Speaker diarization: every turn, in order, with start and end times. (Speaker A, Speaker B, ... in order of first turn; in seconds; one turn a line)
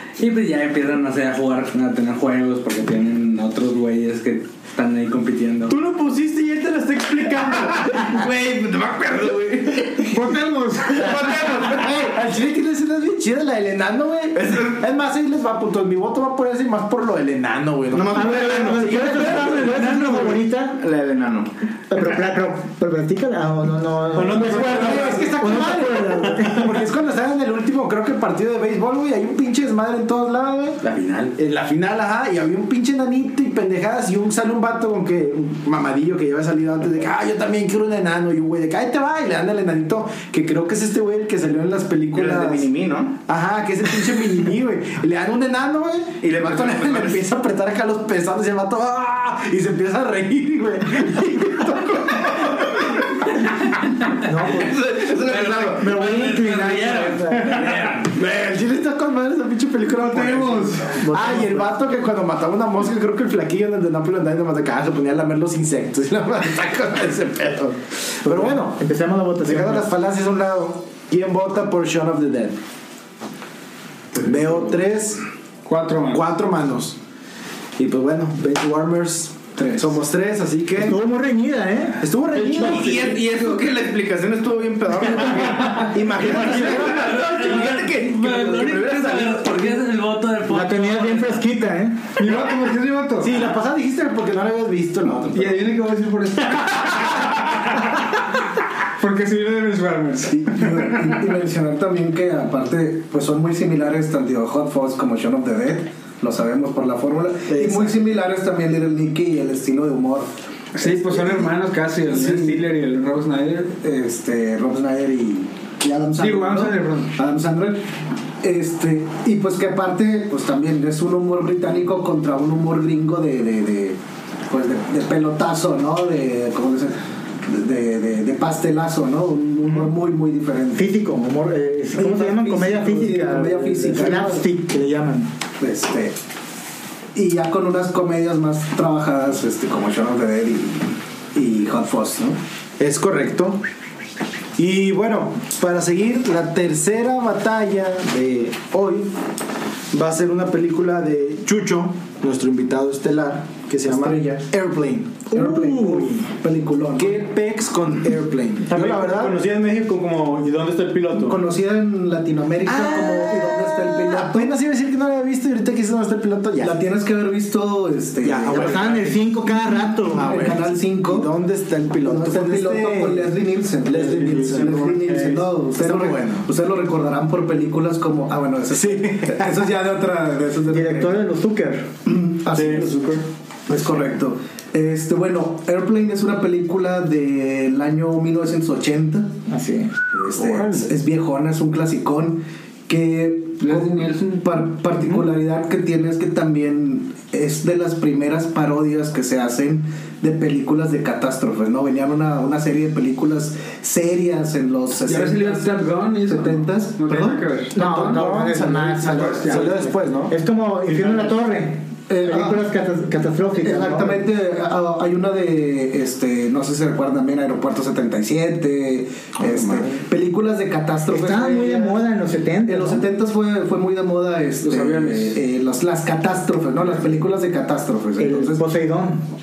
Speaker A: 0.2-5.8
Speaker B: 5.7-8.1
Speaker C: 7.8-10.3
Speaker D: 10.1-11.5
Speaker C: 10.9-12.1
Speaker E: 11.8-20.3
Speaker C: 14.3-14.8
Speaker C: 17.9-18.9
Speaker F: 18.1-20.8
Speaker B: 19.0-20.4
Speaker C: 20.8-21.5
Speaker F: 21.9-26.8
Speaker B: 24.1-25.4
Speaker E: 24.4-30.8
Speaker A: 30.8-31.4
Speaker E: 31.4-42.7
Speaker C: 42.1-43.2
Speaker E: 43.3-52.9
Speaker C: 46.2-47.3
Speaker F: 54.2-54.8
Speaker C: 54.4-56.1
Speaker A: 55.1-58.1
Speaker F: 55.8-57.7
Speaker E: 57.8-68.8
Speaker D: 60.0-61.0
Speaker F: 61.0-61.8
Speaker F: 68.2-69.9
Speaker E: 69.4-72.6
Speaker E: 74.2-75.2
Speaker D: 75.7-76.3
Speaker E: 76.1-77.0
Speaker E: 77.8-81.0
Speaker G: 79.6-79.9
Speaker F: 80.8-82.0
Speaker E: 82.0-83.2
Speaker C: 82.4-89.8
Speaker E: 85.7-87.1
Speaker A: 86.2-91.4
Speaker F: 90.5-92.2
Speaker D: 92.2-93.4
Speaker E: 93.2-95.7
Speaker D: 95.3-98.0
Speaker D: 99.0-101.2
Speaker G: 100.3-111.5
Speaker E: 107.5-108.0
Speaker D: 110.7-113.8
Speaker G: 112.0-112.6
Speaker G: 113.8-117.8
Speaker D: 116.2-117.2
Speaker G: 118.4-130.9
Speaker F: 130.7-135.3
Speaker G: 131.9-134.5
Speaker G: 135.6-136.2
Speaker G: 137.2-142.4
Speaker E: 142.8-143.6
Speaker E: 144.6-149.1
Speaker E: 149.9-155.4
Speaker G: 153.9-154.5
Speaker G: 155.3-157.2
Speaker F: 155.3-156.3
Speaker E: 157.0-159.4
Speaker B: 158.7-161.4
Speaker G: 161.1-164.5
Speaker E: 162.7-166.8
Speaker G: 166.6-169.1
Speaker E: 168.2-169.2
Speaker F: 168.5-170.5
Speaker E: 170.1-173.2
Speaker G: 170.1-171.3
Speaker G: 172.0-181.2
Speaker E: 173.8-175.2
Speaker B: 173.9-175.4
Speaker E: 175.8-176.5
Speaker E: 178.7-179.6
Speaker F: 180.7-181.9
Speaker G: 182.1-183.1
Speaker B: 182.5-183.2
Speaker G: 183.7-189.3
Speaker F: 189.5-189.9
Speaker G: 190.1-207.5
Speaker E: 190.4-190.9
Speaker D: 193.6-194.4
Speaker D: 205.0-208.0
Speaker F: 207.7-214.2
Speaker E: 207.8-210.3
Speaker D: 209.1-209.8
Speaker G: 212.1-212.7
Speaker G: 213.5-222.0
Speaker E: 219.4-220.0
Speaker F: 221.1-223.1
Speaker G: 222.7-228.6
Speaker D: 224.8-225.3
Speaker F: 228.2-229.2